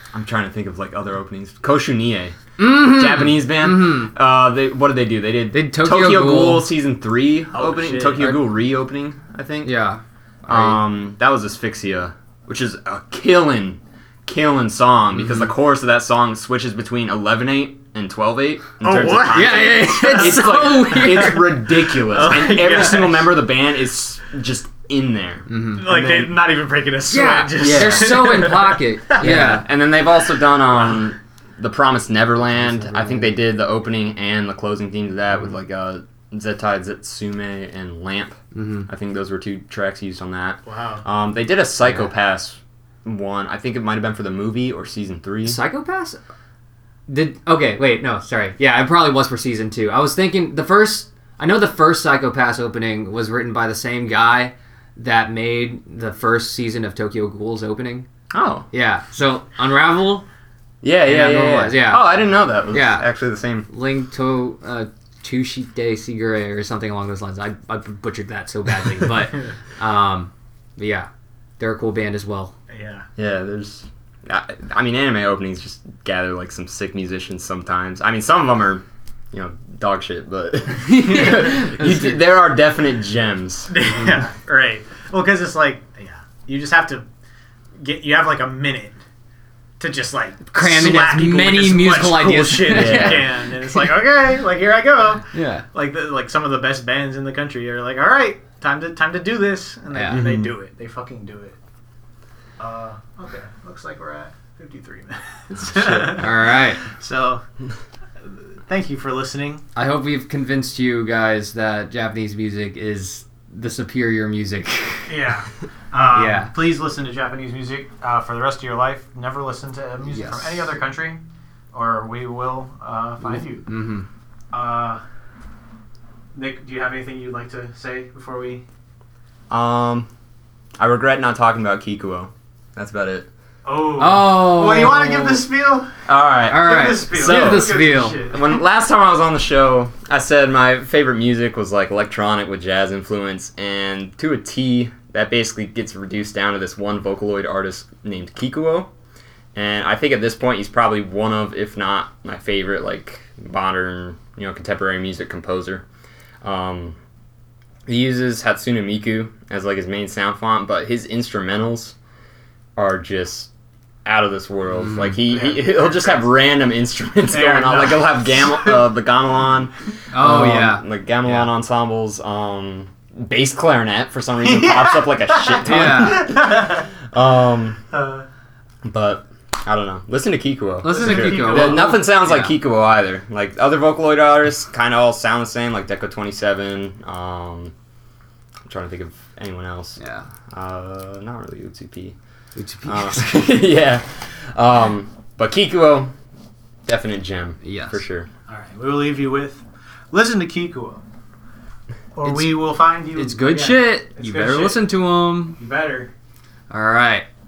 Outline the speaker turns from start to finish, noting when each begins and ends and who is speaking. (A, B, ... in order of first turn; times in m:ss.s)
0:00.1-0:09.8 A
0:02.6-0:04.1 B
0:05.5-0:06.7 B
0:07.5-0:08.3 C
0:09.6-0:10.8 B
0:10.5-0:26.3 A
0:15.2-0:15.5 B
0:18.8-0:23.4 C
0:19.3-0:21.4 B
0:25.5-0:25.8 B
0:25.7-0:29.5 C
0:27.1-0:29.7 B
0:27.6-0:28.6 A
0:29.2-0:45.6 A
0:32.5-0:33.3 B
0:38.5-0:38.9 B
0:40.7-0:41.0 C
0:41.8-0:42.1 B
0:45.4-0:46.2 B
0:47.1-0:58.1 B
0:58.3-0:58.7 A
0:58.7-1:00.3 B
1:00.8-1:03.7 A
1:01.0-1:02.2 B
1:02.7-1:03.1 B
1:03.7-1:12.6 B
1:12.7-1:13.1 C
1:13.2-1:23.7 A
1:20.8-1:22.2 B
1:23.7-1:27.1 C
1:23.8-1:24.3 B
1:27.8-1:29.0 C
1:29.8-1:41.6 C
1:30.5-1:33.9 B
1:32.7-1:33.3 A
1:35.3-1:35.6 B
1:39.9-1:40.2 B
1:40.1-1:40.5 A
1:42.6-1:47.4 C
1:45.6-1:46.2 A
1:46.1-1:46.8 B
1:48.7-1:49.6 C
1:49.8-1:55.1 B
1:55.1-2:01.2 C
1:56.1-1:56.5 B
2:00.1-2:00.7 B
2:01.7-2:03.7 C
2:03.2-2:04.1 B
2:04.5-2:05.0 C
2:06.4-2:08.6 C
2:09.5-2:10.1 A
2:10.8-2:13.3 A
2:13.6-2:18.5 C
2:14.0-2:15.4 B
2:16.1-2:28.9 A
2:16.5-2:18.2 B
2:29.6-2:35.8 A
2:36.4-2:37.0 A
2:37.9-2:42.0 A
2:42.8-2:43.5 A
2:44.0-2:57.8 A
2:44.8-2:45.2 B
2:45.2-2:46.3 C
2:47.3-2:48.8 C
2:50.1-2:51.5 B
2:54.4-2:56.9 C
2:55.6-2:56.3 B
2:57.9-2:58.2 C
2:58.8-3:07.7 A
3:00.8-3:02.6 B
3:00.9-3:02.0 C
3:08.7-3:10.0 A
3:10.0-3:10.3 B
3:10.5-3:12.2 A
3:12.6-3:13.7 B
3:12.9-3:16.1 A
3:16.9-3:18.3 A
3:17.6-3:18.0 B
3:18.5-3:21.0 C
3:22.2-3:24.8 C
3:22.2-3:22.6 B
3:23.2-3:25.6 B
3:25.6-3:26.1 C
3:26.7-3:27.3 B